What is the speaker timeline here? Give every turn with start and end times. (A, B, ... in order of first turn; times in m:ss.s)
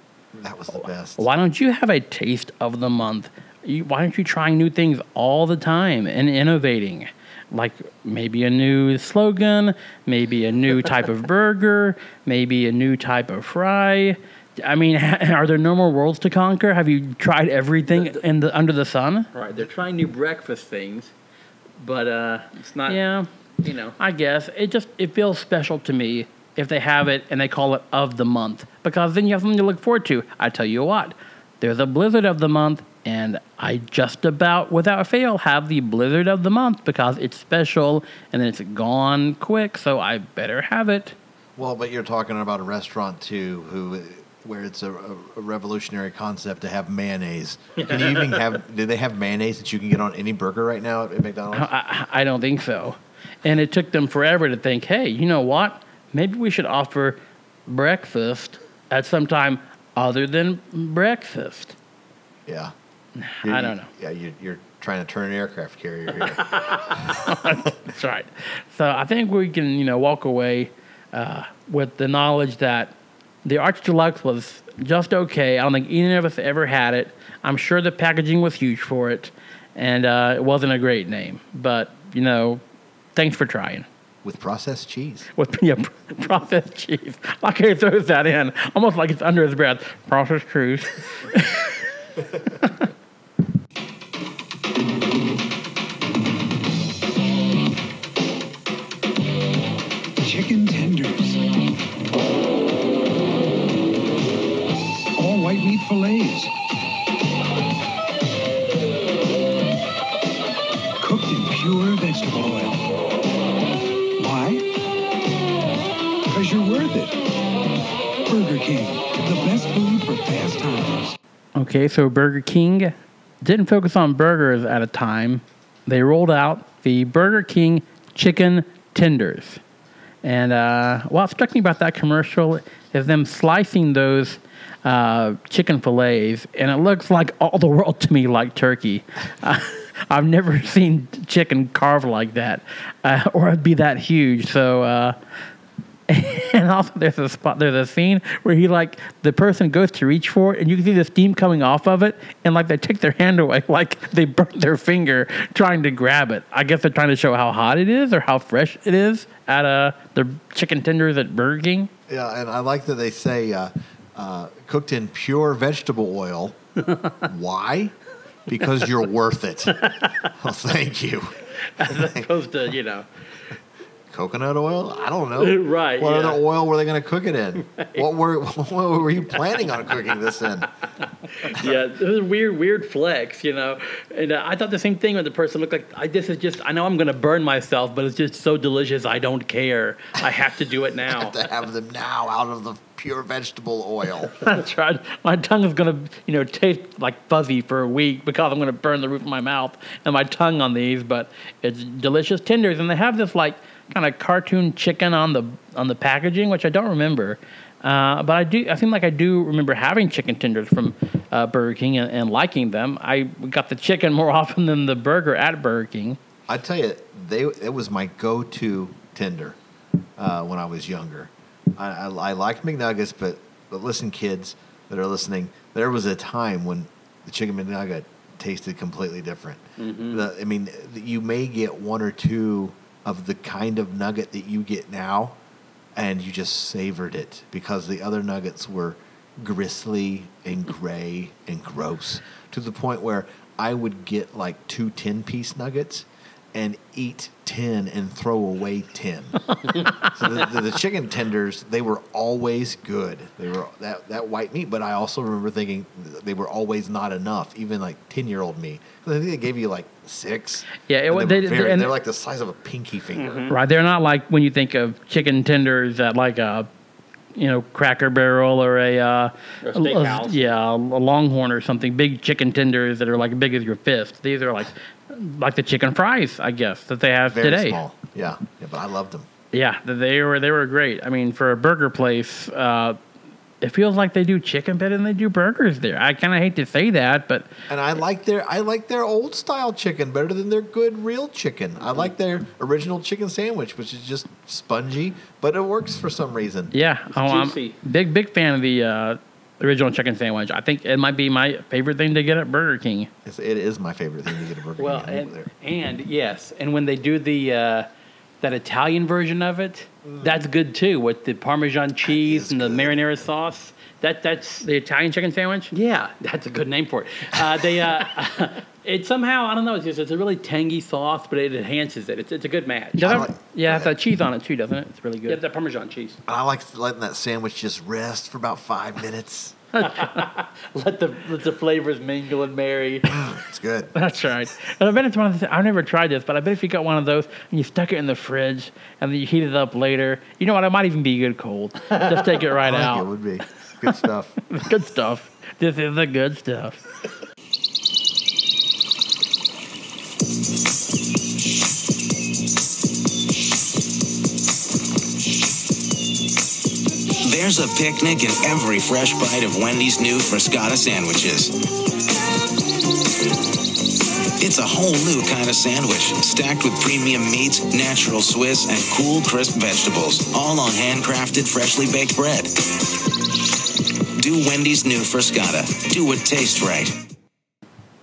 0:00.3-0:01.2 A
0:01.2-0:19.3 B
0:17.9-0:18.2 C
0:19.3-0:21.1 C
0:21.8-0:23.0 C
0:22.9-0:23.3 B
0:23.6-0:24.0 C
0:24.0-0:41.1 B
0:41.6-0:51.7 A
0:51.5-1:01.7 B
1:02.4-1:02.7 A
1:03.4-1:03.9 B
1:03.4-1:06.9 A
1:07.1-1:22.6 B
1:23.2-1:23.8 B
1:24.2-1:25.3 A
1:25.4-1:31.7 B
1:40.2-1:41.4 D
1:45.2-1:46.5 D
1:51.0-1:52.8 D
1:54.2-1:54.7 D
1:56.3-1:57.2 D
1:58.3-2:01.1 D
2:01.6-2:09.6 B
2:10.2-2:25.1 B
2:26.1-2:41.9 B
2:42.1-2:46.6 A
2:47.2-2:47.9 A
2:48.5-2:49.8 A
2:50.4-2:52.3 A
2:52.5-2:53.0 C
2:54.1-3:00.7 A
2:55.4-2:56.4 C
3:01.4-3:11.4 C
3:11.0-3:14.3 A
3:14.4-3:36.2 B
3:36.5-3:39.6 A
3:40.2-3:55.4 A
3:49.8-3:50.3 C
3:55.9-4:23.5 A
4:20.9-4:21.9 B
4:23.2-4:23.6 C
4:23.5-4:26.7 B
4:27.4-4:37.8 B
4:29.6-4:30.4 C
4:37.3-4:39.3 A
4:39.5-4:43.0 B
4:43.6-4:47.5 B
4:47.7-4:56.7 A
4:56.7-5:03.1 B
4:57.1-4:57.8 C
5:03.2-5:05.5 A
5:04.8-5:07.9 C
5:08.4-5:14.6 C
5:10.0-5:10.4 A
5:12.0-5:13.0 A
5:14.6-5:15.7 B
5:15.7-5:23.2 C
5:23.0-5:23.9 A
5:23.0-5:25.4 B
5:25.3-5:26.2 C
5:26.3-5:29.6 A
5:29.8-5:33.2 C
5:29.8-5:30.1 B
5:33.1-5:33.9 A
5:33.9-5:43.0 B
5:42.6-5:44.3 A
5:44.5-5:46.8 B
5:57.3-6:01.4 E
6:04.4-6:12.5 E
6:14.2-6:16.8 E